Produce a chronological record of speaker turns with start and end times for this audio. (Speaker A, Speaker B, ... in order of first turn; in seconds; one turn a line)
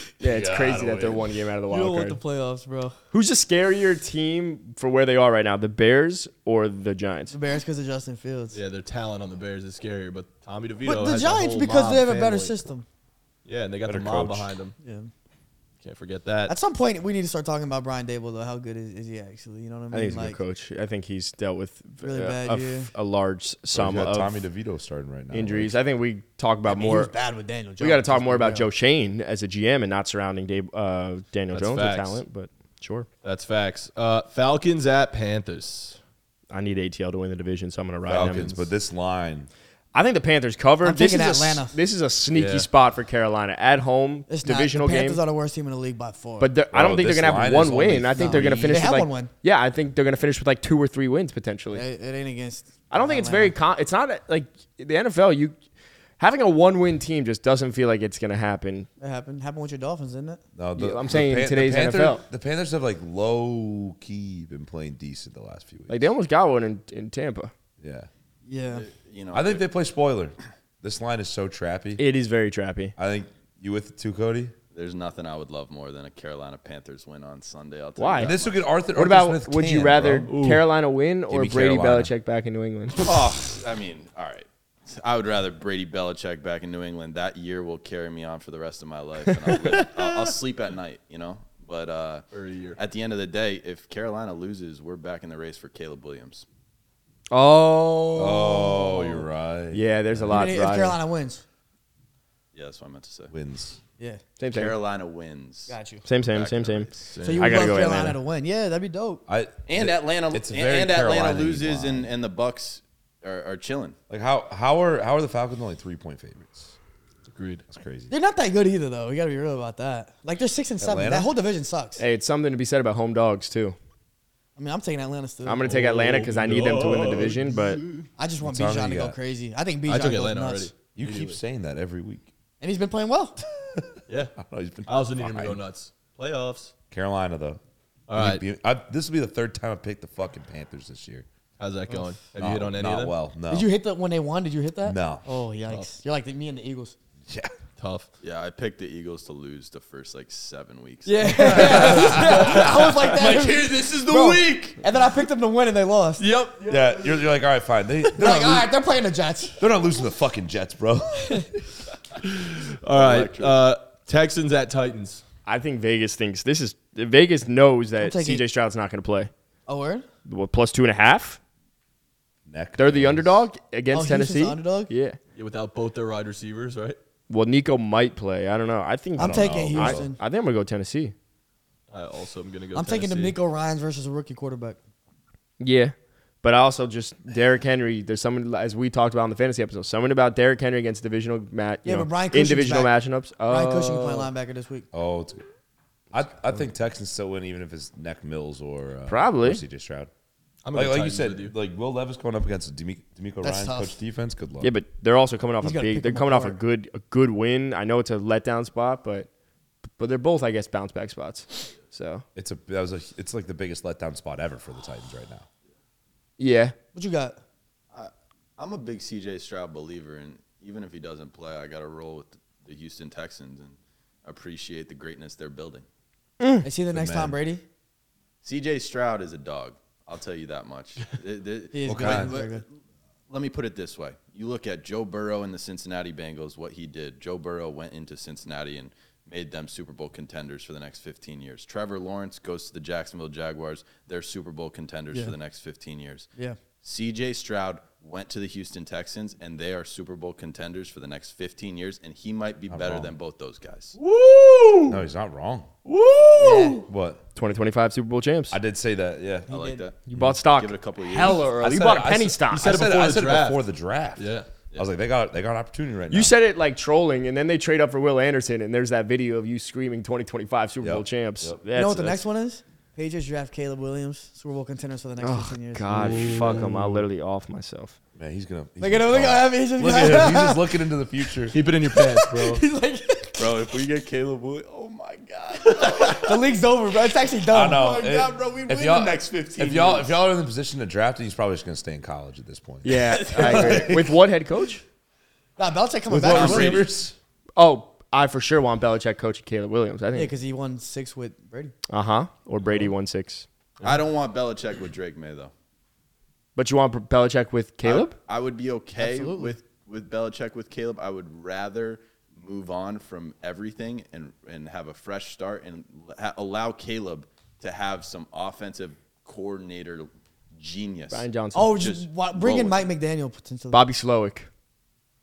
Speaker A: 0.2-2.2
Speaker B: 0.2-1.3
Speaker C: 1.7-2.9
Speaker A: 3.1-7.3
Speaker C: 7.3-8.6
Speaker B: 8.5-12.6
Speaker C: 10.8-12.8
Speaker B: 13.4-14.7
Speaker D: 13.8-14.5
Speaker C: 14.8-15.1
Speaker B: 15.8-16.6
Speaker C: 16.5-20.4
Speaker A: 19.9-24.4
Speaker C: 22.0-22.9
Speaker D: 23.7-25.8
Speaker A: 25.3-27.1
Speaker C: 26.6-28.7
Speaker A: 27.8-33.1
Speaker B: 31.5-32.2
Speaker B: 33.2-36.0
Speaker A: 36.5-38.5
Speaker D: 38.0-39.5
Speaker B: 38.2-38.7
Speaker A: 39.9-45.2
Speaker C: 40.8-41.7
Speaker B: 42.3-42.7
Speaker C: 44.3-46.5
Speaker A: 46.4-51.9
Speaker D: 46.7-48.9
Speaker C: 48.1-49.3
Speaker C: 51.7-53.5
Speaker A: 52.9-55.5
Speaker A: 56.2-58.9
Speaker C: 59.0-60.4
Speaker D: 60.5-66.1
Speaker A: 60.8-62.2
Speaker A: 65.9-67.5
Speaker D: 67.8-68.1
Speaker C: 68.5-68.9
Speaker E: 68.7-69.6
Speaker D: 69.3-72.0
Speaker A: 72.0-72.9
Speaker D: 73.0-74.5
Speaker E: 74.7-78.6
Speaker A: 78.0-78.3
Speaker D: 78.2-80.3
Speaker A: 78.9-83.1
Speaker B: 80.2-80.7
Speaker D: 81.3-82.1
Speaker E: 83.0-92.2
Speaker A: 89.5-89.9
Speaker B: 92.3-92.8
Speaker E: 92.8-96.4
Speaker A: 97.3-99.0
Speaker D: 98.2-100.5
Speaker A: 99.7-101.0
Speaker C: 100.3-101.4
Speaker E: 102.5-103.3
Speaker D: 103.3-103.8
Speaker A: 104.4-104.8
Speaker E: 104.5-107.2
Speaker C: 105.7-106.0
Speaker A: 106.0-108.2
Speaker B: 107.1-107.8
Speaker C: 107.2-109.2
Speaker D: 109.3-112.1
Speaker E: 109.7-114.0
Speaker D: 114.1-116.8
Speaker B: 117.3-117.6
Speaker D: 117.7-118.1
Speaker C: 118.1-122.0
Speaker D: 120.8-121.3
Speaker A: 122.0-123.8
Speaker C: 124.5-125.7
Speaker A: 125.4-127.8
Speaker B: 125.6-128.1
Speaker C: 128.2-130.7
Speaker D: 128.4-129.2
Speaker B: 129.8-131.4
Speaker D: 130.9-132.3
Speaker C: 132.6-133.4
Speaker B: 134.1-136.7
Speaker D: 134.4-135.6
Speaker D: 136.9-137.6
Speaker B: 138.1-138.4
Speaker D: 138.1-141.3
Speaker B: 141.6-143.1
Speaker D: 142.4-143.7
Speaker C: 143.5-146.9
Speaker D: 144.8-145.2
Speaker D: 147.3-147.5
Speaker B: 147.8-148.1
Speaker E: 148.2-152.0
Speaker C: 151.1-156.3
Speaker D: 151.4-152.7
Speaker B: 151.5-154.8
Speaker B: 156.2-156.8
Speaker D: 156.7-158.7
Speaker C: 158.1-159.6
Speaker D: 159.6-161.5
Speaker B: 162.2-165.2
Speaker A: 165.4-169.3
Speaker C: 168.0-168.4
Speaker C: 169.7-170.1
Speaker A: 170.2-171.4
Speaker D: 172.5-173.4
Speaker A: 172.8-175.2
Speaker C: 173.9-174.9
Speaker B: 175.3-177.0
Speaker A: 177.3-181.1
Speaker C: 179.2-180.2
Speaker D: 179.2-180.1
Speaker B: 181.9-183.4
Speaker C: 182.7-184.8
Speaker A: 185.6-194.3
Speaker C: 191.8-192.9
Speaker C: 193.4-194.9
Speaker D: 194.9-195.4
Speaker D: 196.1-200.1
Speaker A: 199.1-199.6
Speaker B: 200.6-201.5
Speaker D: 200.7-204.7
Speaker C: 203.4-203.9
Speaker A: 204.6-209.3
Speaker C: 205.6-206.6
Speaker A: 210.0-212.2
Speaker D: 212.3-215.4
Speaker A: 216.4-216.7
Speaker C: 216.9-217.4
Speaker E: 217.9-225.8
Speaker A: 226.4-226.7
Speaker C: 226.6-227.6
Speaker D: 226.9-227.4
Speaker E: 228.4-232.7
Speaker C: 231.7-232.6
Speaker D: 231.8-232.4
Speaker E: 233.3-246.3
Speaker E: 246.8-253.9
Speaker D: 252.7-253.1
Speaker B: 254.0-255.0
Speaker D: 254.9-255.7
Speaker B: 255.8-256.8
Speaker C: 256.3-256.8
Speaker D: 256.8-257.2
Speaker A: 257.4-258.6
Speaker D: 258.5-259.5
Speaker C: 259.5-259.8
Speaker E: 259.5-261.5
Speaker A: 260.1-262.7
Speaker D: 260.1-260.4
Speaker D: 261.3-266.3
Speaker B: 262.5-263.6
Speaker B: 264.2-264.5
Speaker A: 266.1-272.2
Speaker D: 270.8-271.6
Speaker C: 271.7-276.6
Speaker A: 275.2-277.9
Speaker D: 276.1-276.6
Speaker B: 276.2-277.0
Speaker D: 278.1-281.6
Speaker C: 278.8-280.7
Speaker B: 281.5-282.6
Speaker C: 281.8-283.5
Speaker E: 283.4-286.3
Speaker C: 285.8-290.0
Speaker D: 287.5-294.1
Speaker E: 288.4-289.9
Speaker A: 292.8-294.8
Speaker C: 293.5-293.8
Speaker C: 295.6-296.9
Speaker D: 296.1-297.1
Speaker E: 296.2-296.9
Speaker A: 297.6-300.3
Speaker C: 300.1-301.7
Speaker A: 301.9-303.4
Speaker E: 303.8-305.5
Speaker A: 306.6-308.1
Speaker E: 307.8-322.9
Speaker C: 309.0-309.5
Speaker A: 321.1-321.8
Speaker C: 321.5-323.8
Speaker A: 323.7-324.5